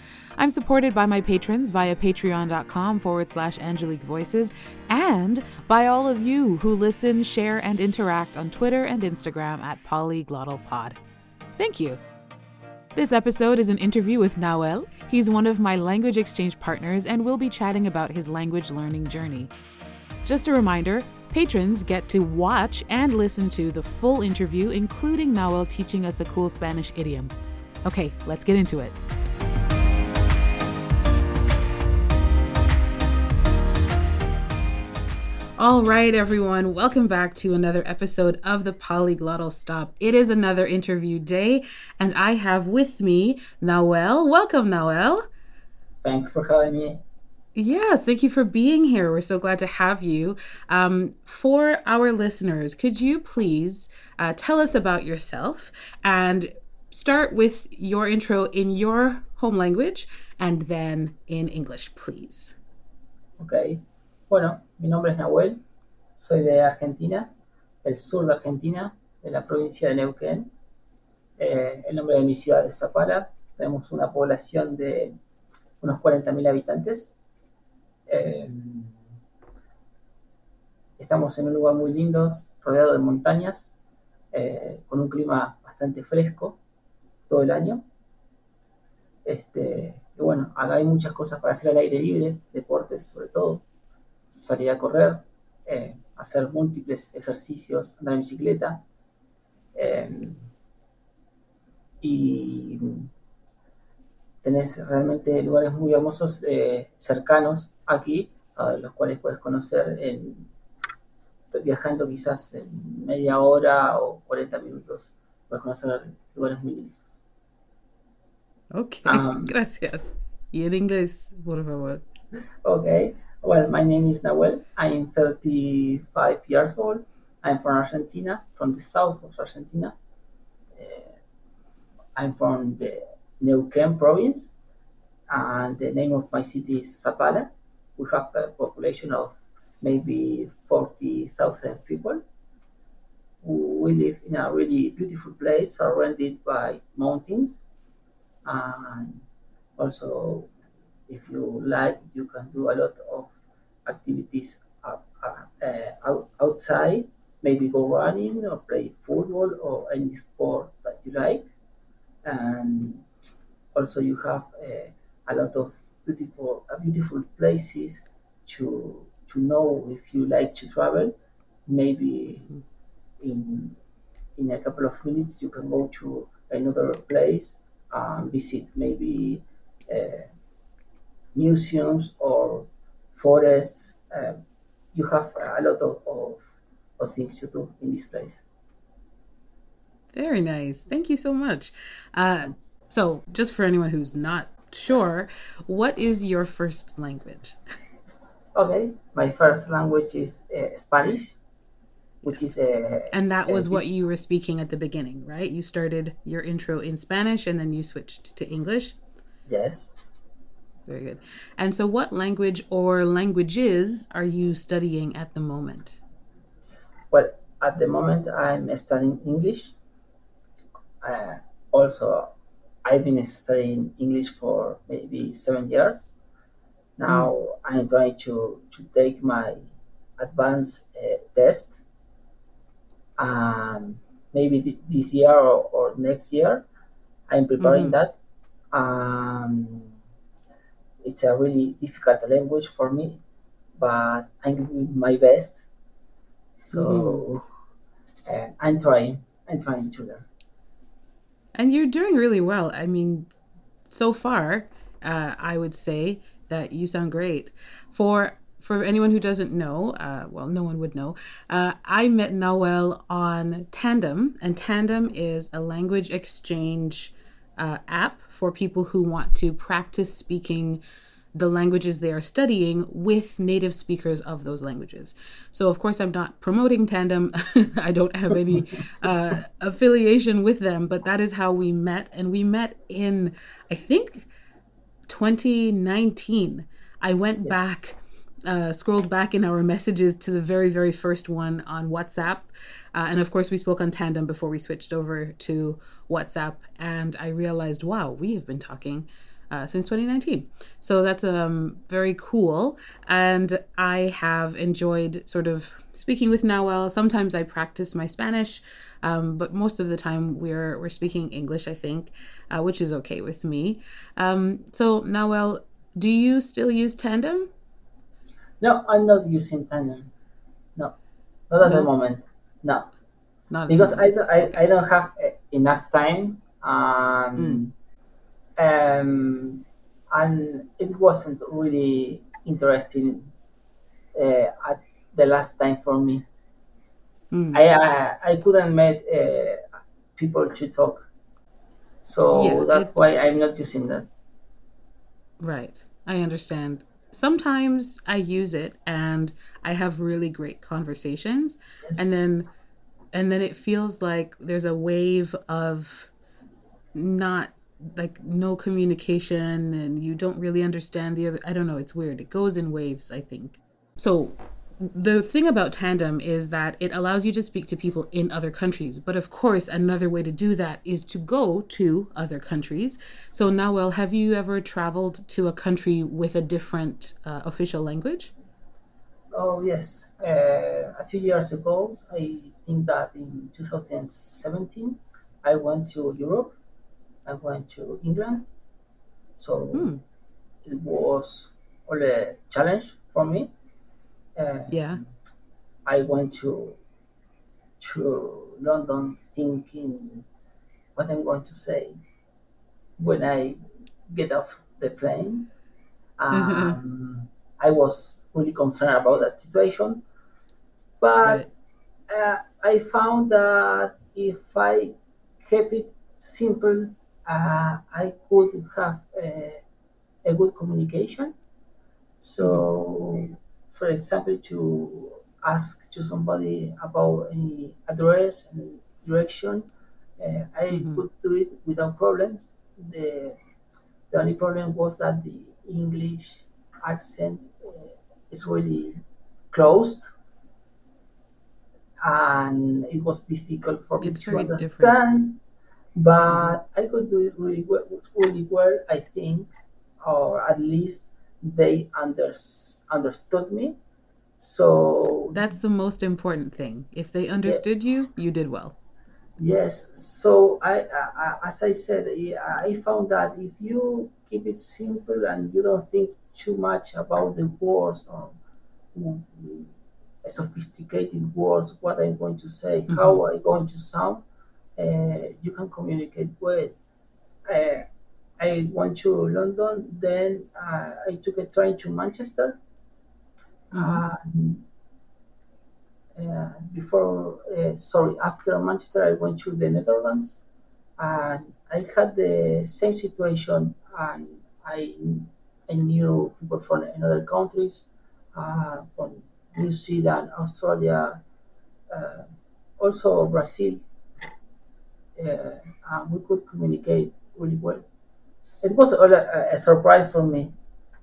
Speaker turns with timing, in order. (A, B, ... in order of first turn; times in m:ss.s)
0:00.4-0:11.0 A
0:11.6-0:12.0 A
0:12.9-0:19.5 A
0:20.2-0:27.3 A
0:27.8-0:29.0 A
0:35.6-0:45.3 A
0:46.0-0:47.0 B
0:47.5-1:02.6 A
1:03.4-1:05.6 B
1:06.2-1:07.3 B
1:07.8-1:10.5 B
1:11.4-1:15.1 B
1:15.8-1:17.1 B
1:18.1-1:18.9 B
1:21.0-1:23.7 B
1:24.3-1:26.6 B
1:27.3-1:27.8 B
1:29.2-1:33.6 B
1:34.3-1:38.8 B
1:39.7-1:40.4 B
1:42.0-1:43.1 B
1:44.4-1:50.5 B
1:51.5-1:57.1 B
1:58.7-2:02.0 A
1:59.0-1:59.5 B
2:02.6-2:10.0 B
2:10.8-2:11.1 B
2:12.2-2:14.5 B
2:15.3-2:22.2 B
2:23.4-2:27.6 B
2:28.4-2:29.2 B
2:29.8-2:30.5 B
2:31.1-2:33.3 B
2:33.8-2:41.5 B
2:42.2-2:43.0 B
2:43.7-2:51.1 B
2:51.7-2:52.5 B
2:53.2-2:53.8 B
2:54.4-3:00.3 B
3:01.3-3:04.4 B
3:04.9-3:06.4 B
3:07.0-3:08.4 B
3:10.1-3:17.6 A
3:18.6-3:21.4 B
3:22.2-3:23.8 B
3:23.1-3:29.0 A
3:29.5-3:29.9 B
3:30.9-3:36.0 A
3:37.1-3:39.7 B
3:41.0-3:42.3 B
3:42.8-3:46.1 B
3:47.0-3:49.6 B
3:50.2-3:51.8 B
3:53.2-3:56.6 B
3:57.3-3:58.2 B
3:57.6-3:58.0 A
3:58.7-3:59.9 B
4:01.0-4:03.2 B
4:03.8-4:05.6 B
4:06.6-4:07.4 B
4:06.7-4:07.2 A
4:08.2-4:10.2 B
4:11.5-4:13.3 A
4:13.9-4:30.8 A
4:31.3-4:44.3 A
4:45.1-5:17.5 A
4:47.4-4:47.8 B
5:18.6-5:20.1 B
5:21.5-5:22.9 B
5:21.6-5:21.9 A
5:23.5-5:24.1 A
5:23.7-5:27.7 B
5:28.6-5:33.3 B
5:34.1-5:36.2 B
5:37.3-5:37.6 A
5:37.5-5:39.6 B
5:40.2-5:41.1 B
5:42.0-5:44.1 B
5:42.3-5:43.1 A
5:45.4-5:52.5 A
5:51.8-5:52.1 B
5:53.1-5:56.1 A
5:56.9-6:18.3 A
6:19.3-6:26.6 B
6:27.2-6:28.4 B
6:29.4-6:30.0 B
6:29.7-6:30.0 A
6:30.6-6:33.5 B
6:34.4-6:35.0 B
6:34.7-6:35.0 A
6:35.8-6:36.8 B
6:37.8-6:40.2 B
6:41.0-6:42.0 B
6:43.0-6:43.6 B
6:44.1-6:45.5 B
6:46.2-6:50.0 B
6:46.3-6:46.8 A
6:51.0-6:51.5 B
6:52.1-6:59.6 B
7:00.2-7:01.3 B
7:02.2-7:09.7 B
7:10.2-7:13.4 B
7:10.7-7:11.0 A
7:14.1-7:19.0 B
7:19.5-7:20.1 B
7:22.0-7:25.4 B
7:24.0-7:25.0 A
7:26.0-7:29.5 B
7:30.0-7:33.8 B
7:34.4-7:35.4 B
7:35.3-7:38.8 A
7:39.4-7:48.4 B
7:48.9-7:49.7 B
7:50.2-7:54.2 B
7:52.9-7:53.2 A
7:54.8-7:56.7 B
7:57.5-7:57.8 B
7:58.4-8:02.6 B
8:03.7-8:04.6 B
8:03.7-8:04.0 A
8:06.2-8:10.4 B
8:11.0-8:21.2 B
8:21.9-8:22.3 B
8:22.8-8:23.8 B
8:25.2-8:27.8 B
8:28.6-8:30.5 B